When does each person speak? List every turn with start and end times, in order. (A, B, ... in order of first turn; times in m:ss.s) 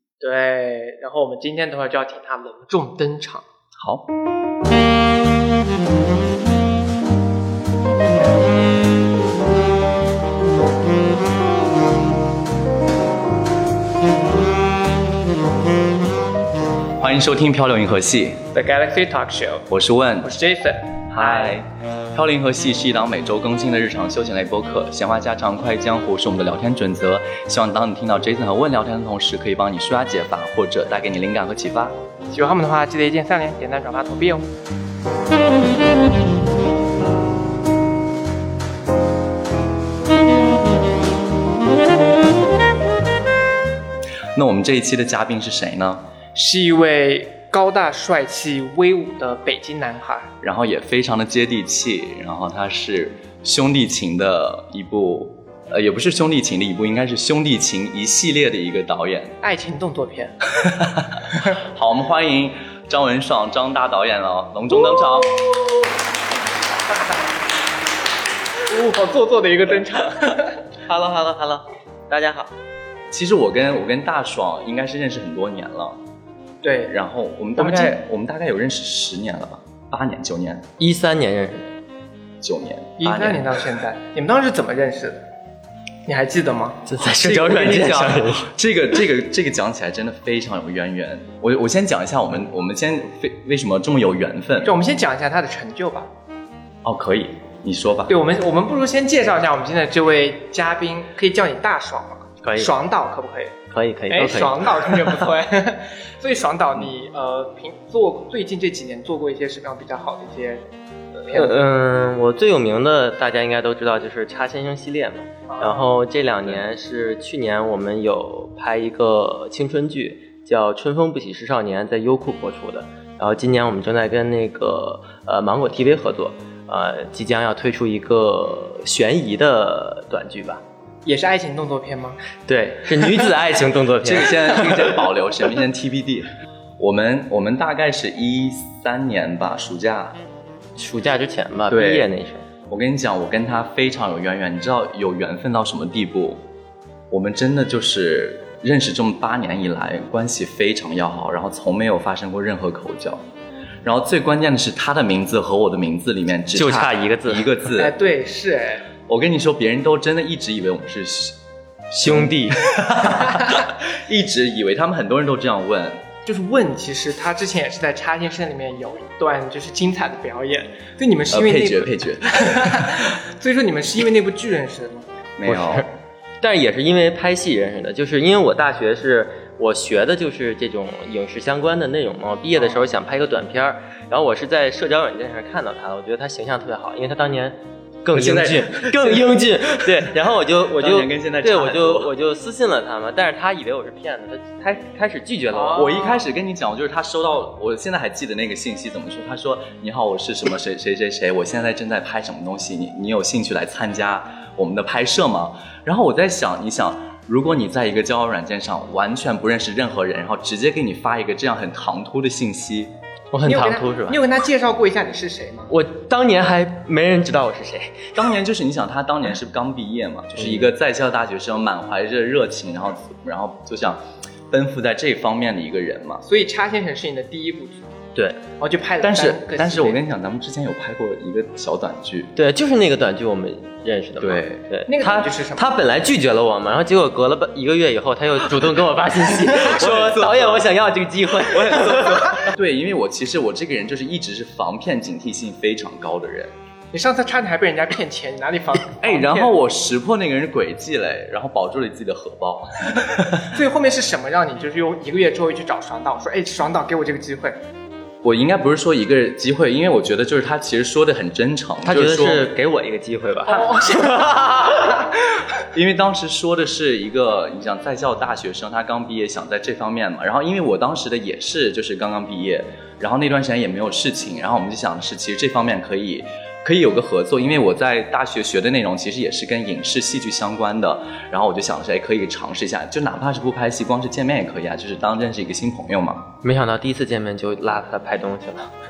0:00.2-0:03.4 A
0:03.8-0:04.0 B
0:17.0-0:18.5 B
0:18.5-0:19.7 A
0:19.7-0:20.3 B
0:20.2-0:21.6 A
0:21.1-0:31.9 B
0:32.3-0:34.5 A
0:44.3-0:46.0 B
0:46.3-0:50.3 A
0:50.4-0:59.4 B
0:59.4-1:00.4 A
1:00.6-1:05.4 B
1:04.7-1:05.8 A
1:08.6-1:10.6 A
1:10.9-1:12.5 C
1:13.1-1:16.0 B
1:16.6-1:16.9 A
1:16.9-1:20.7 B
1:17.6-1:18.0 A
1:20.8-1:21.7 C
1:22.4-1:23.5 B
1:23.0-1:25.2 A
1:26.0-1:26.8 A
1:26.9-1:28.5 C
1:27.0-1:34.7 B
1:34.6-1:36.1 A
1:36.8-1:38.2 B
1:38.1-1:43.6 A
1:42.4-1:42.7 C
1:43.7-1:45.0 C
1:44.1-1:50.6 A
1:51.2-1:51.6 A
1:51.3-2:10.6 C
1:55.5-1:56.0 A
2:11.0-2:12.2 A
2:12.4-2:15.0 C
2:14.0-2:16.3 B
2:16.8-2:20.2 B
2:20.8-2:22.4 C
2:21.7-2:22.0 B
2:22.7-2:26.4 B
2:27.1-2:33.2 B
2:33.8-2:37.9 B
2:36.5-2:37.6 C
2:37.8-2:38.8 A
2:39.1-2:41.4 B
2:41.9-2:46.0 B
2:42.0-2:42.7 C
2:46.2-2:55.1 A
2:51.3-2:53.2 B
2:55.4-2:55.9 B
2:55.5-2:55.9 C
2:56.4-3:15.9 C
3:08.1-3:10.1 B
3:10.6-3:12.1 B
3:15.5-3:16.3 A
3:15.7-3:32.9 B
3:33.3-3:34.2 C
3:33.4-3:35.7 A
3:35.7-3:38.1 C
3:38.1-3:46.2 B
3:40.4-3:40.7 C
3:46.2-3:47.9 A
3:48.2-3:48.4 C
3:48.6-3:50.0 A
3:49.0-3:52.3 B
3:52.4-4:02.5 C
3:54.2-3:54.6 B
3:54.9-3:55.7 A
3:59.6-4:00.7 B
4:01.4-4:06.5 B
4:06.9-4:09.6 A
4:09.0-4:13.5 B
4:13.4-4:17.6 A
4:18.2-4:22.5 B
4:21.8-4:25.0 C
4:23.5-4:24.7 A
4:25.6-4:46.3 B
4:46.4-4:48.7 C